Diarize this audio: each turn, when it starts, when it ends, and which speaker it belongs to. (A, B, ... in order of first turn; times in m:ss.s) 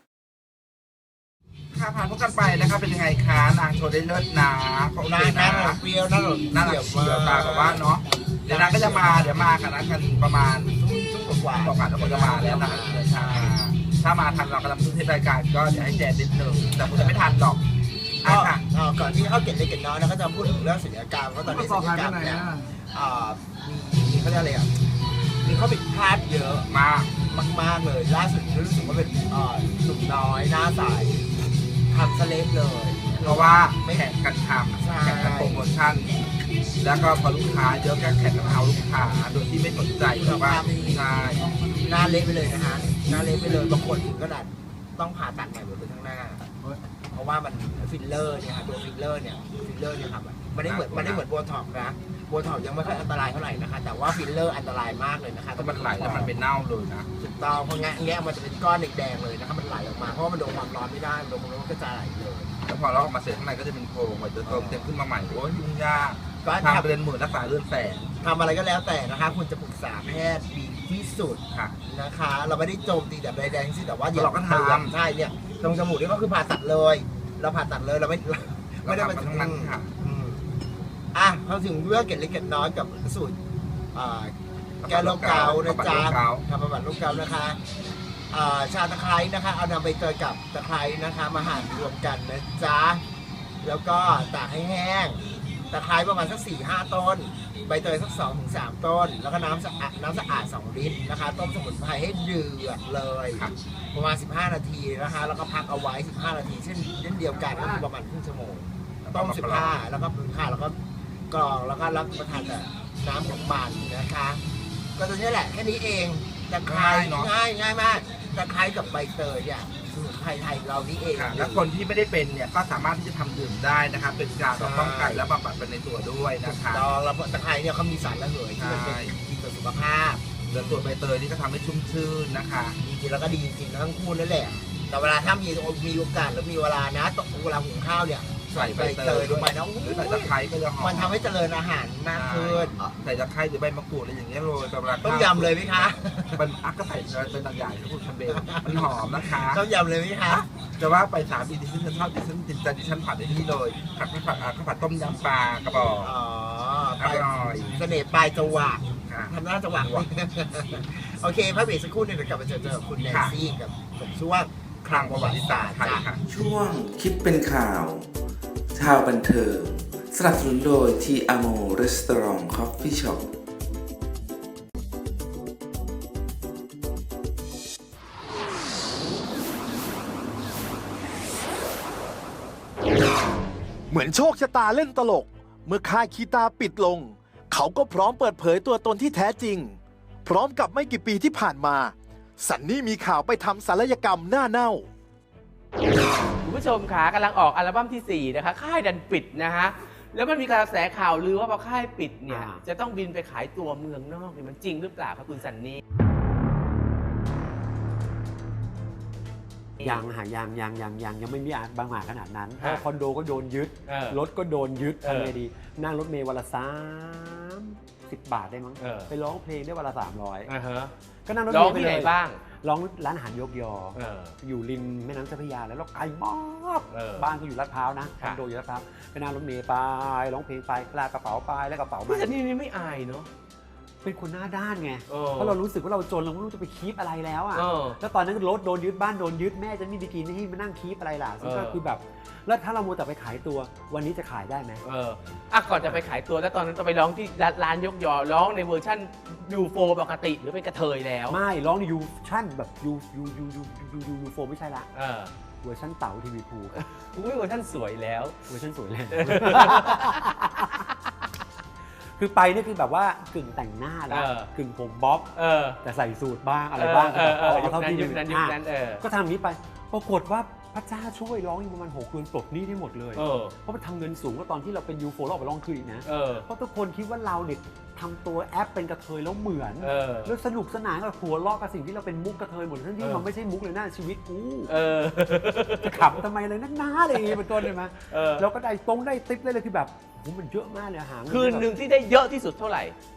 0:01.7-0:05.8 A
0:05.1-0:07.8 B
0:06.5-0:10.7 A
0:08.5-0:09.4 B
0:10.7-0:13.5 B
0:11.5-0:17.6 A
0:16.8-0:17.1 B
0:18.2-0:18.6 A
0:18.2-0:24.7 B
0:21.5-0:22.5 A
0:25.4-0:26.7 B
0:26.7-0:27.2 A
0:27.2-0:31.2 B
0:31.9-0:34.0 B
0:33.2-0:36.2 A
0:34.8-0:35.6 B
0:36.8-0:41.6 A
0:40.2-0:46.5 B
0:47.1-0:56.4 B
0:50.6-0:51.2 A
0:55.6-0:57.1 A
0:57.2-1:02.5 B
1:02.6-1:08.1 A
1:04.4-1:04.9 B
1:06.4-1:06.9 B
1:08.2-1:20.5 B
1:11.5-1:11.8 A
1:14.1-1:14.9 A
1:18.8-1:19.9 A
1:21.1-1:23.4 B
1:23.9-1:24.3 B
1:24.8-1:26.4 A
1:24.9-1:27.6 B
1:28.3-1:33.0 B
1:33.6-1:50.8 B
1:47.3-1:47.8 A
1:49.0-1:49.8 A
1:51.3-1:54.4 B
1:55.0-2:01.6 B
1:56.6-1:57.3 A
2:01.1-2:06.9 A
2:04.5-2:05.2 B
2:06.4-2:10.8 B
2:08.6-2:09.1 A
2:10.5-2:12.8 A
2:12.8-2:22.9 B
2:18.5-2:21.2 A
2:22.1-2:29.6 A
2:25.0-2:26.4 B
2:28.3-2:30.5 B
2:30.3-2:36.1 A
2:36.0-2:46.1 B
2:37.0-2:37.8 A
2:39.1-2:40.1 A
2:43.0-2:43.4 A
2:44.9-2:46.2 A
2:46.3-2:48.1 C
2:48.7-2:53.2 C
3:03.9-3:14.8 D
3:16.4-3:25.8 E
3:22.3-3:22.6 F
3:29.8-3:40.5 F
3:33.9-3:34.2 E
3:35.0-3:35.3 E
3:38.8-3:39.1 E
3:40.5-3:40.9 E
3:41.2-3:52.3 F
3:41.5-3:42.4 E
3:44.0-3:44.4 E
3:46.9-3:47.3 E
3:52.1-3:53.3 E
3:54.0-4:04.8 F
3:55.1-3:55.6 E
3:57.5-3:58.0 E
4:01.4-4:01.8 E
4:04.8-4:11.4 E
4:05.8-4:06.1 F
4:11.3-4:14.9 F
4:14.9-4:15.3 E
4:15.6-4:16.8 F
4:16.7-4:18.4 E
4:18.4-4:20.8 F
4:19.1-4:20.8 E
4:22.2-4:44.7 F
4:24.1-4:24.5 E
4:25.4-4:25.8 E
4:26.7-4:29.0 E
4:33.1-4:33.5 E
4:36.0-4:36.4 E
4:39.8-4:40.3 E
4:44.7-4:46.2 E
4:45.8-4:51.7 F
4:47.1-4:47.4 E
4:48.1-4:48.4 E
4:51.3-4:53.0 E